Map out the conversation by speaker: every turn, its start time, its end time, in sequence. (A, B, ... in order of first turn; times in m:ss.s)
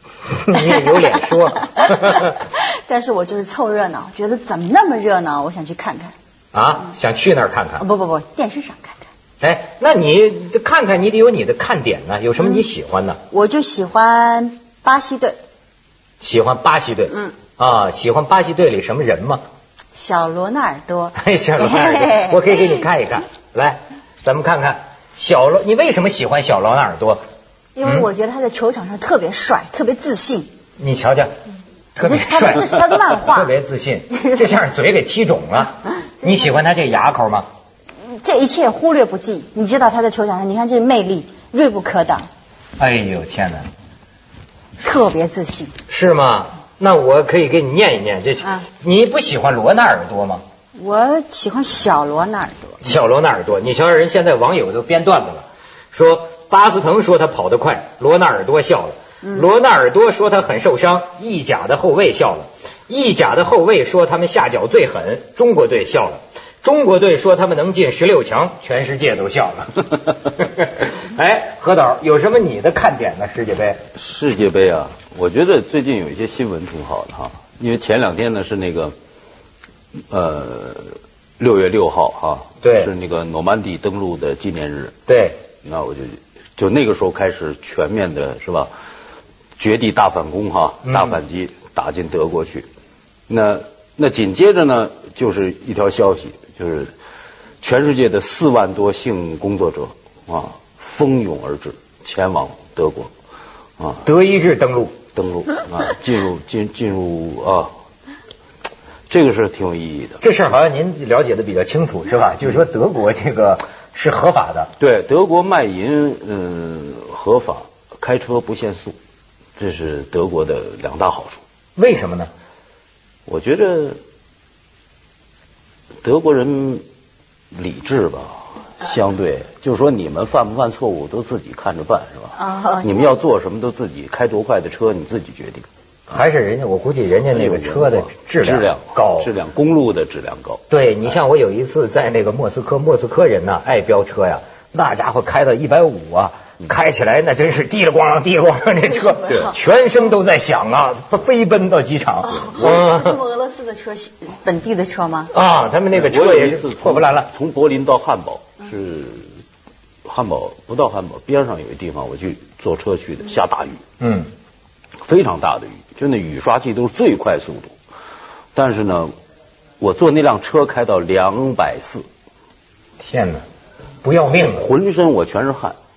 0:00.4-0:02.4 A
0:00.6-0:06.2 B
0:06.5-0:07.8 A
0:07.8-0:09.1 B
0:09.4-0:13.2 A
0:13.3-0:15.4 B
0:16.2-0:19.4 A
0:17.1-0:17.4 B
0:20.0-0:22.8 B
0:21.2-0:27.2 A
0:27.8-0:30.5 B
0:27.8-0:28.1 A
0:30.8-0:31.3 A
0:32.0-0:37.5 A
0:32.0-0:33.5 B
0:34.1-0:34.6 B
0:36.2-0:36.5 B
0:38.0-0:42.3 B
0:42.8-0:43.6 A
0:44.8-0:45.7 B
0:45.9-0:50.4 A
0:50.8-0:52.7 B
0:52.8-1:13.8 A
1:14.0-1:18.9 C
1:20.1-1:24.9 C
1:22.6-1:22.9 A
1:25.1-1:25.4 A
1:25.6-1:28.7 C
1:29.6-1:32.7 C
1:30.9-1:31.2 A
1:33.3-1:36.9 C
1:37.6-1:43.1 C
1:43.8-1:44.1 C
1:44.0-1:45.0 A
1:45.2-1:47.7 C
1:49.1-1:50.2 C
1:50.2-1:54.7 A
1:54.8-1:59.0 C
1:59.6-2:01.4 C
2:01.8-2:02.3 A
2:03.3-2:04.0 C
2:06.0-2:06.8 C
2:07.5-2:15.7 C
2:12.3-2:13.2 B
2:16.1-2:19.3 A
2:17.3-2:20.6 C
2:20.7-2:33.2 A
2:28.8-2:29.6 B
2:32.2-2:35.3 B
2:32.4-2:32.9 C
2:35.3-2:37.3 A
2:35.9-2:39.3 C
2:40.0-2:43.8 C
2:44.0-2:44.3 A
2:45.0-2:47.7 C
2:48.6-2:49.1 C
2:49.8-2:52.1 C
2:53.0-2:53.4 A
2:54.0-2:54.7 A
2:54.4-2:55.8 C